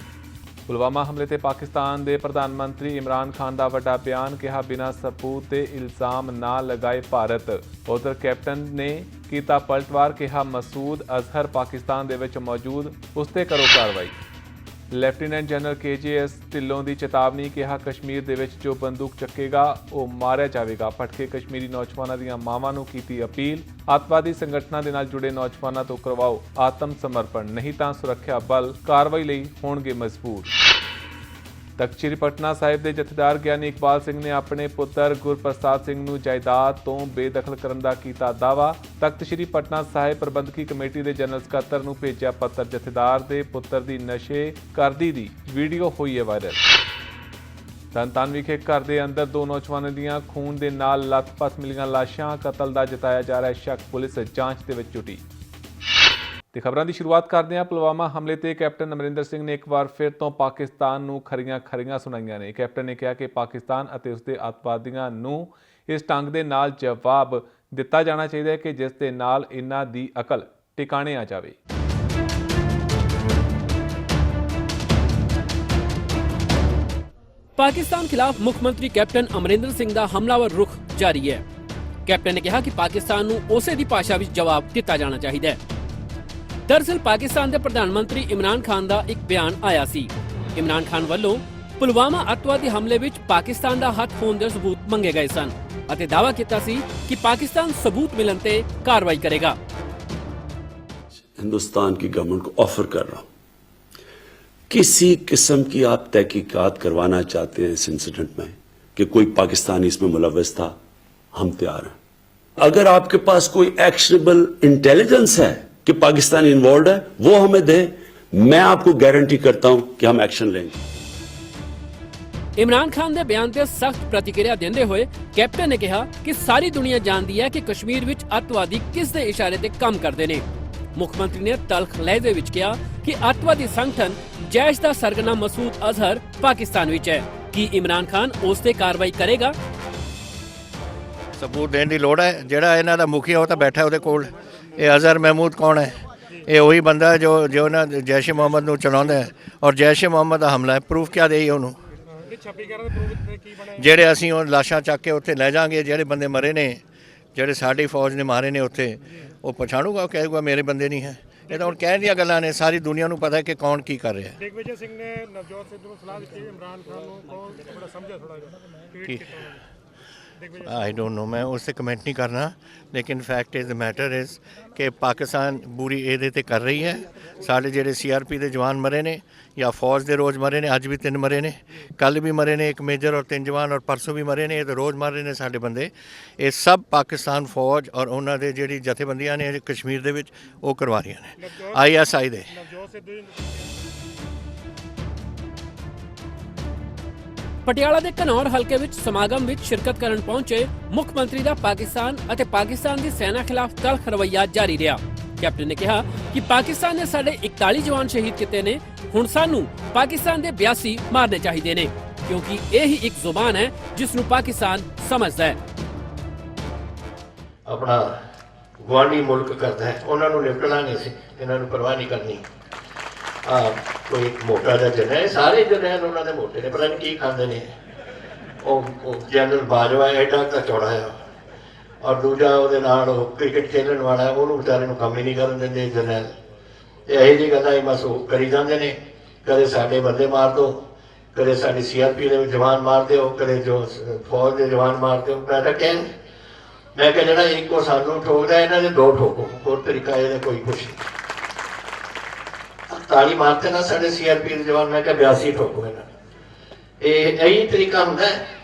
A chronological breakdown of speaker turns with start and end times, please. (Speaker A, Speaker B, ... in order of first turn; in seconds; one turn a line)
Speaker A: 0.7-14.1
Speaker A: 14.9-30.5
Speaker A: 31.8-46.6
Speaker A: 47.9-55.2
Speaker A: 56.5-71.6
Speaker B: 77.6-81.4
Speaker B: 82.1-85.6
Speaker B: 86.7-99.6
Speaker C: 101.2-103.3
Speaker C: 104.7-110.8
Speaker C: 111.3-111.9
Speaker C: 112.6-120.8
Speaker B: 122.6-130.4
Speaker B: 131.0-139.6
Speaker D: 141.4-151.8
Speaker E: 152.2-154.0
Speaker D: 153.8-156.8
Speaker D: 157.3-164.4
Speaker E: 161.5-161.8
Speaker E: 164.4-169.6
Speaker E: 170.4-170.8
Speaker D: 170.6-192.5
Speaker E: 191.4-192.0
Speaker E: 192.5-193.7
Speaker B: 197.7-215.6
Speaker D: 217.7-218.2
Speaker D: 218.8-222.5
Speaker D: 223.4-227.8
Speaker D: 228.6-231.2
Speaker D: 232.0-236.3
Speaker D: 237.1-246.1
Speaker D: 246.9-251.1
Speaker D: 252.9-256.1
Speaker D: 257.0-258.4